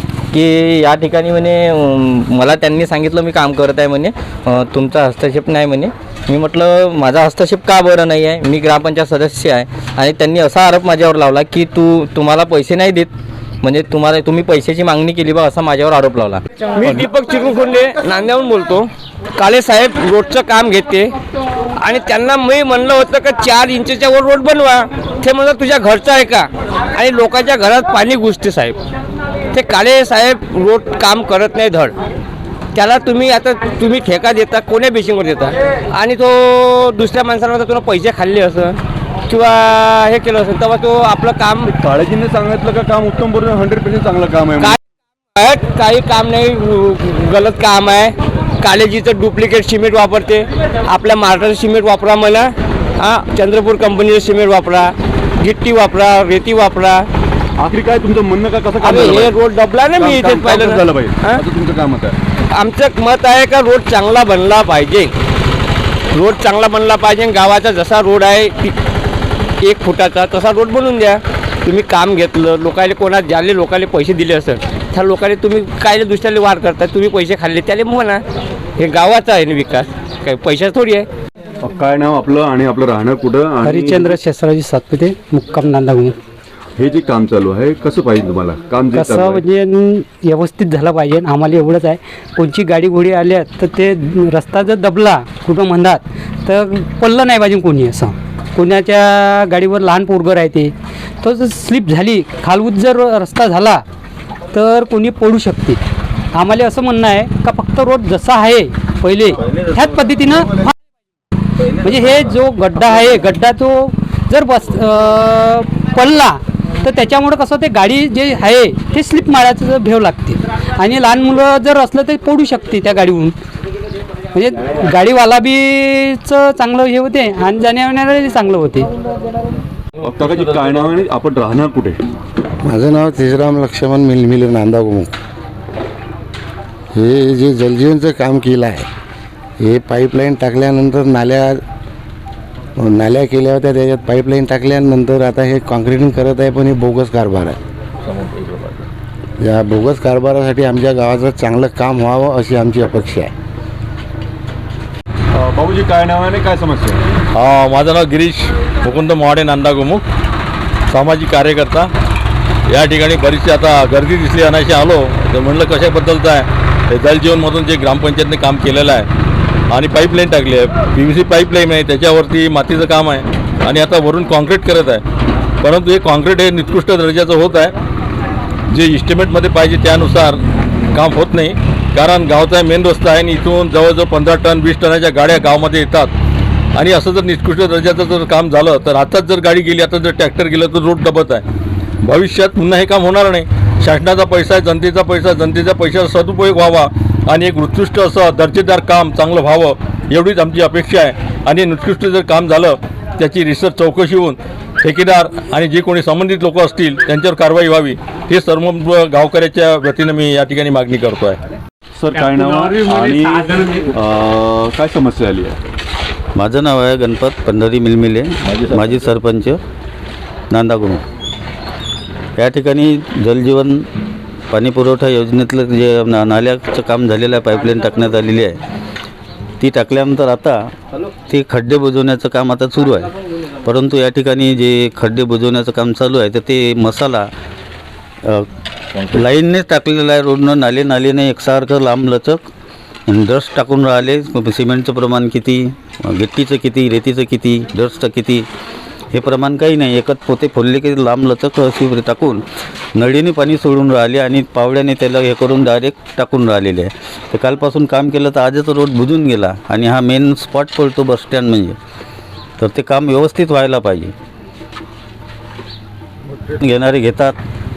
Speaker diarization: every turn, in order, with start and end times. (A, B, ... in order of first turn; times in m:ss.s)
0:00.3-0:13.1 A
0:13.6-0:16.4 A
0:16.8-0:21.1 B
0:21.8-0:28.8 B
0:29.5-0:31.9 B
0:32.8-0:38.8 B
0:39.3-0:41.6 B
0:41.7-0:44.8 C
0:45.4-0:54.9 B
0:55.4-0:57.0 B
0:57.6-0:59.4 C
0:58.8-1:01.4 B
0:59.9-1:02.2 C
1:02.6-1:05.1 B
1:06.1-1:08.7 B
1:09.6-1:18.2 B
1:18.8-1:21.0 B
1:21.6-1:24.2 C
1:23.6-1:26.2 D
1:26.8-1:29.4 C
1:28.9-1:43.8 D
1:44.5-1:45.8 D
1:46.3-1:50.7 D
1:51.7-2:03.3 D
2:04.3-2:08.9 D
2:10.0-2:12.0 C
2:12.6-2:15.1 E
2:16.9-2:18.9 E
2:19.6-2:21.6 E
2:22.8-2:27.6 E
2:28.0-2:28.9 F
2:29.4-2:33.3 E
2:35.4-2:37.0 C
2:37.3-2:40.0 F
2:40.9-2:41.9 F
2:42.7-2:49.1 F
2:49.7-2:55.0 F
2:55.6-2:57.7 F
2:58.7-3:00.4 F
3:00.9-3:06.1 F
3:06.8-3:11.4 F
3:12.0-3:31.4 F
3:32.0-3:35.6 C
3:36.4-3:39.6 G
3:40.5-3:41.0 G
3:42.4-3:43.8 G
3:44.5-3:48.6 G
3:49.6-3:50.6 G
3:51.2-3:57.3 G
3:59.0-4:02.4 G
4:03.1-4:08.5 G
4:09.1-4:12.4 G
4:13.0-4:21.8 G
4:22.6-4:24.1 G
4:26.5-4:27.4 G